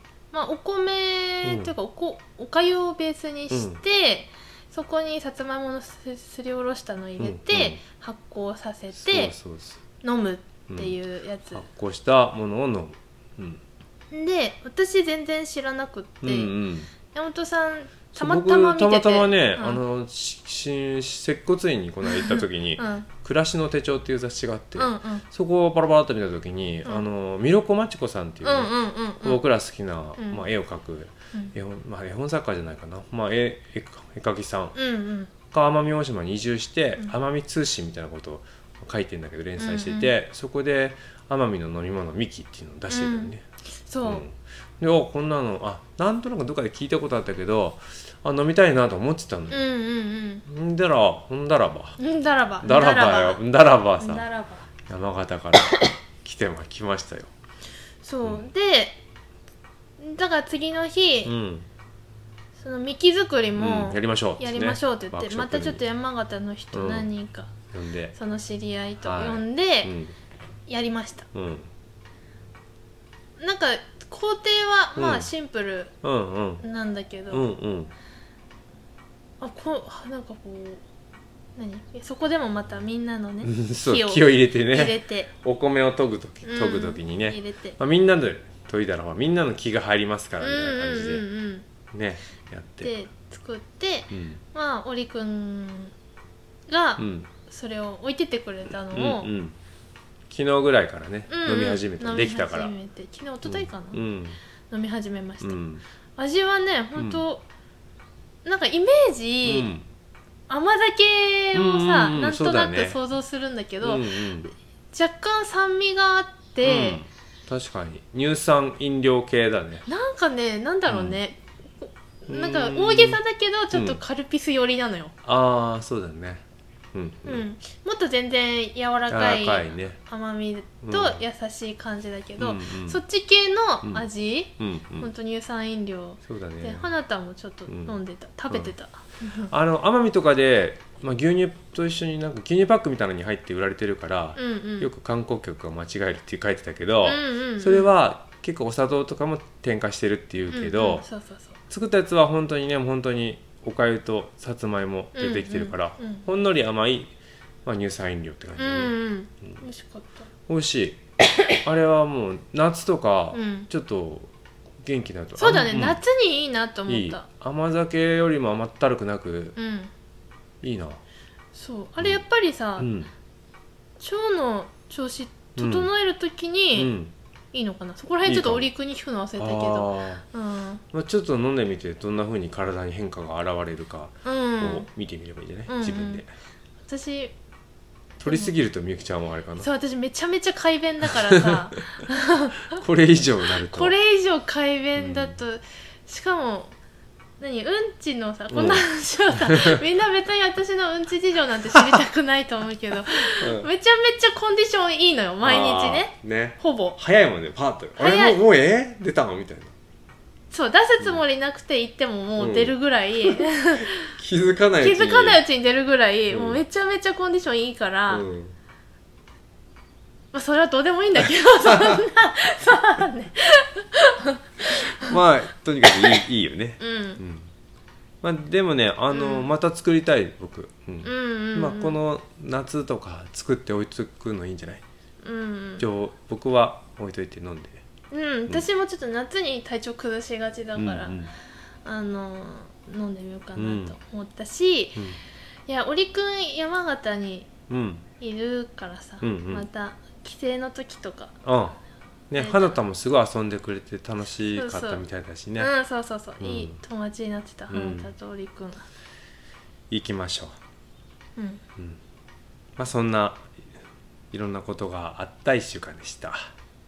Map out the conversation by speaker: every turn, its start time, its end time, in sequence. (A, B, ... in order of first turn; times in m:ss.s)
0:00.3-0:09.3 A
0:01.4-0:01.7 B
0:03.5-0:03.8 B
0:07.2-0:07.8 B
0:08.9-0:09.8 B
0:10.0-0:11.6 A
0:10.7-0:11.0 B
0:11.5-0:13.6 B
0:14.1-0:16.6 A
0:16.2-0:16.9 B
0:17.1-0:19.8 A
0:18.1-0:34.8 B
0:22.0-0:23.1 A
0:24.8-0:25.2 A
0:28.4-0:29.4 A
0:30.2-0:30.5 A
0:34.8-0:35.3 A
0:35.5-0:43.4 B
0:39.6-0:40.1 A
0:42.9-0:43.3 A
0:43.8-0:44.2 A
0:44.0-0:49.7 B
0:49.5-0:50.4 A
0:50.5-0:52.0 B
0:52.0-0:53.4 A
0:52.6-0:54.3 B
0:54.0-0:54.7 A
0:54.9-0:57.3 B
0:58.0-0:59.0 A
1:00.0-1:01.3 A
1:01.2-1:01.7 B
1:02.6-1:07.5 A
1:03.6-1:05.8 B
1:06.7-1:07.1 B
1:07.7-1:08.2 B
1:08.2-1:09.9 A
1:09.0-1:10.2 B
1:10.7-1:11.3 A
1:11.3-1:11.7 B
1:13.4-1:15.9 A
1:15.0-1:15.3 B
1:16.0-1:16.6 B
1:16.6-1:17.5 A
1:17.3-1:17.9 B
1:19.4-1:20.8 A
1:21.6-1:25.3 A
1:23.4-1:31.3 B
1:26.4-1:27.8 A
1:30.4-1:31.7 A
1:31.9-1:33.0 B
1:32.8-1:35.9 A
1:34.1-1:34.4 B
1:36.7-1:39.3 A
1:37.0-1:37.3 B
1:38.9-1:39.6 B
1:40.3-1:42.7 B
1:41.3-1:44.0 A
1:43.4-1:44.4 B
1:44.7-1:45.6 A
1:45.4-1:45.8 B
1:46.2-1:47.4 A
1:47.0-1:47.2 B
1:48.4-1:49.7 A
1:49.4-1:49.9 B
1:50.5-1:57.0 A
1:51.5-1:53.0 B
1:53.8-1:54.5 B
1:56.6-1:59.9 B
1:59.9-2:05.1 A
2:00.9-2:01.2 B
2:02.3-2:03.2 B
2:03.7-2:04.0 B
2:05.2-2:06.4 B
2:06.9-2:07.4 B
2:07.3-2:19.5 A
2:09.1-2:10.0 B
2:10.8-2:11.2 B
2:12.4-2:13.0 B
2:14.6-2:15.1 B
2:16.2-2:16.9 B
2:17.7-2:18.0 B
2:18.5-2:18.7 B
2:19.5-2:31.1 B
2:24.4-2:24.9 A
2:27.0-2:27.9 A
2:30.5-2:31.6 A
2:31.7-2:37.1 B
2:35.2-2:36.2 A
2:37.6-2:39.0 B
2:38.6-2:40.3 A
2:40.5-2:41.0 B
2:41.6-2:44.3 B
2:43.3-2:43.7 A
2:44.8-2:46.0 B
2:45.4-2:47.2 A
2:46.9-2:49.6 B
2:49.6-2:49.9 A
2:50.6-2:51.0 B
2:51.6-2:52.9 A
2:52.8-2:53.1 B
2:54.0-2:56.9 A
2:55.6-2:55.9 B
2:56.8-2:57.1 B
2:57.5-3:00.8 A
2:58.2-2:58.7 B
2:59.4-3:00.2 B
3:00.9-3:06.3 B
3:04.2-3:04.9 A
3:05.7-3:06.2 A
3:06.9-3:07.3 A
3:08.2-3:09.7 B
3:08.3-3:08.5 A
3:09.6-3:12.8 A
3:11.3-3:11.8 B
3:12.7-3:14.0 B
3:13.6-3:16.8 A
3:15.0-3:15.4 B
3:17.4-3:27.0 A
3:18.5-3:19.8 B
3:23.4-3:23.7 B
3:25.4-3:29.7 B
3:28.0-3:28.4 A
3:30.5-3:34.1 A
3:32.4-3:35.4 B
3:34.8-3:38.3 A
3:36.3-3:36.6 B
3:38.1-3:38.6 B
3:40.3-3:45.2 A
3:41.8-3:42.0 B
3:45.0-3:47.5 B
3:46.8-3:47.2 A
3:48.2-3:54.8 B
3:49.1-3:49.5 A
3:51.0-3:52.0 A
3:55.2-3:55.9 A
3:55.8-3:57.8 B
3:58.1-4:01.2 A
4:00.8-4:01.3 B
4:01.8-4:05.0 A
4:03.6-4:04.0 B
4:05.0-4:05.2 B
4:05.7-4:07.5 A
4:07.7-4:08.0 B
4:08.2-4:11.4 A
4:09.2-4:09.7 B
4:11.4-4:11.8 B
4:12.3-4:15.7 B
4:12.4-4:12.7 A
4:14.4-4:15.0 A
4:15.6-4:18.9 A
4:16.4-4:16.8 B
4:17.7-4:18.1 B
4:19.9-4:20.6 B
4:21.4-4:21.6 A
4:22.8-4:23.5 B
4:24.3-4:26.5 B